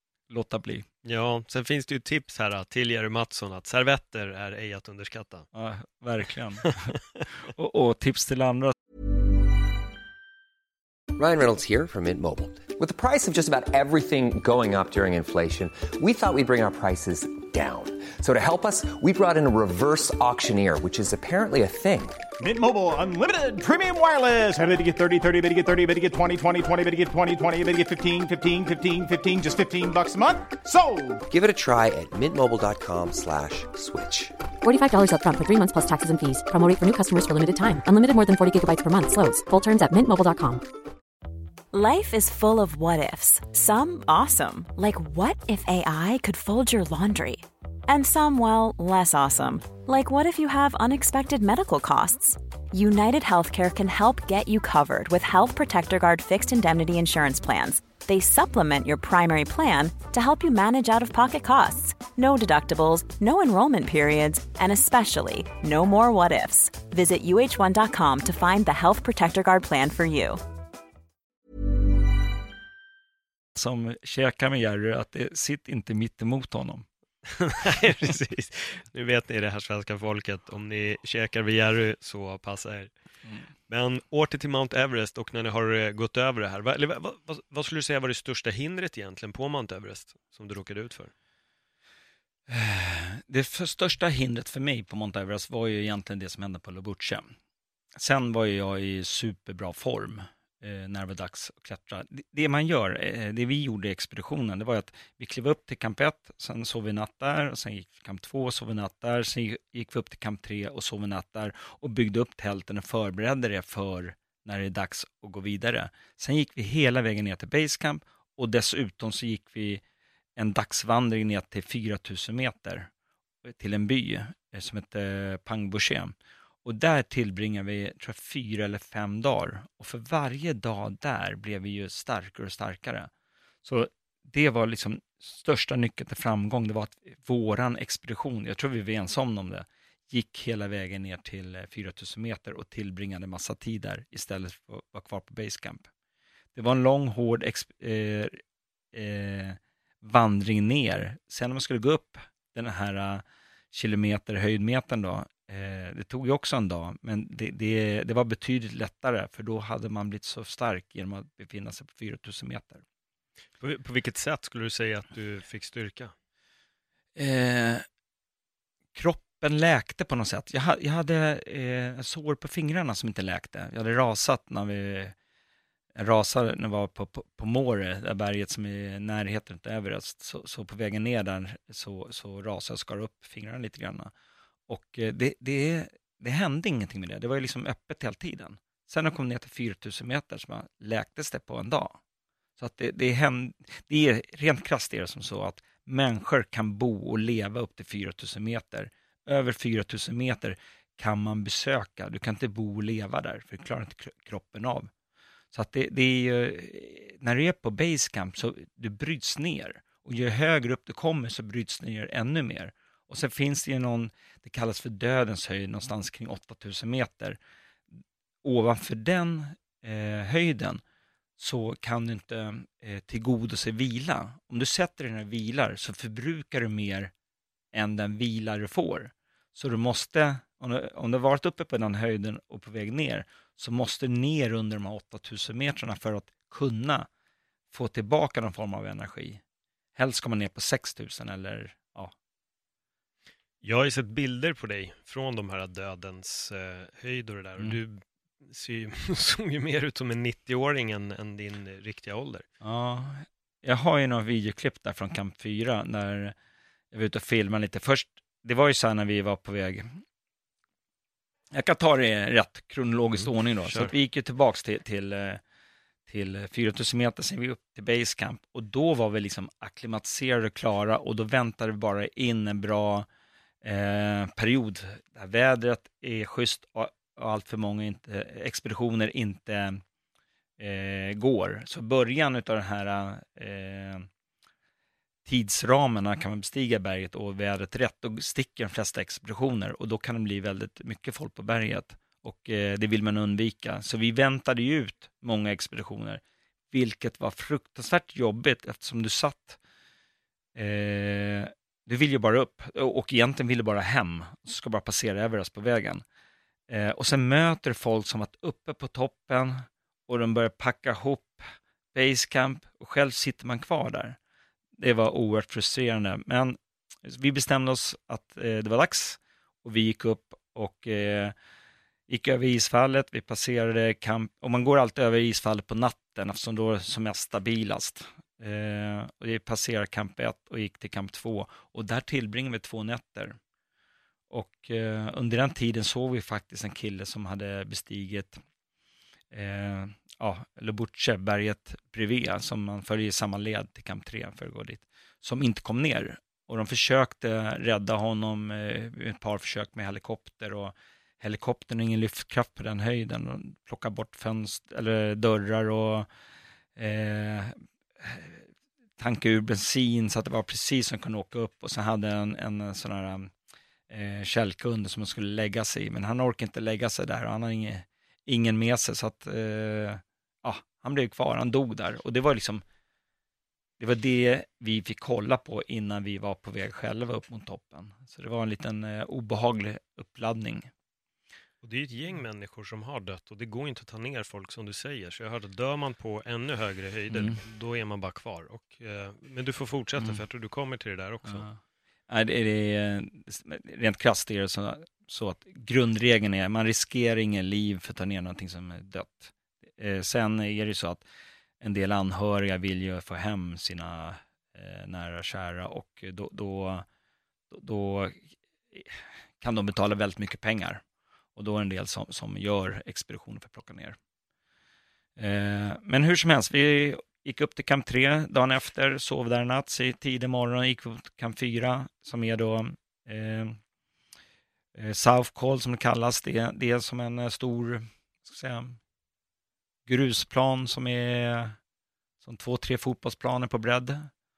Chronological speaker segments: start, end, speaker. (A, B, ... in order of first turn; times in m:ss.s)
0:00.3-0:00.8 A
0:01.0-0:05.5 B
0:05.5-0:08.7 A
0:11.1-0:22.2 C
0:22.4-0:31.2 D
0:31.3-0:34.3 C
0:34.6-0:40.6 E
0:41.7-1:10.4 F
1:13.5-1:16.8 A
1:17.3-1:22.9 B
1:23.7-1:31.1 B
1:32.5-1:37.3 A
1:38.0-1:59.8 A
2:00.4-2:02.9 A
2:03.4-2:13.1 A
2:13.6-2:25.9 A
2:26.5-2:28.4 A
2:28.9-2:42.8 A
2:43.6-2:46.1 B
2:47.2-2:47.8 A
2:48.9-2:55.1 A
2:56.0-3:04.1 A
3:04.7-3:12.0 A
3:12.6-3:24.9 A
3:25.5-3:37.4 A
3:38.4-3:40.8 A
3:41.4-3:47.1 A
3:47.7-3:57.1 A
3:57.7-3:59.4 A
4:00.0-4:02.1 A
4:03.6-4:12.4 B
4:12.6-4:16.3 A
4:16.9-4:20.0 A
4:21.5-4:25.4 A
4:23.2-4:23.9 B
4:26.1-4:33.1 A
4:33.6-4:39.8 A
4:40.6-4:44.1 A
4:45.2-4:59.6 A
5:00.5-5:06.0 A
5:06.7-5:14.2 A
5:14.8-5:21.3 A
5:22.1-5:33.4 A
5:34.3-5:38.4 A
5:39.3-5:56.1 A
5:56.8-5:58.5 A
5:59.0-6:03.3 A
6:03.9-6:12.6 A
6:13.8-6:20.7 A
6:21.6-6:31.5 B
6:27.1-6:27.4 A
6:31.2-6:41.0 A
6:41.6-6:46.8 A
6:47.5-6:50.8 A
6:51.4-6:54.0 A
6:55.2-7:03.6 A
7:04.7-7:08.8 A
7:09.8-7:11.6 A
7:12.2-7:14.1 A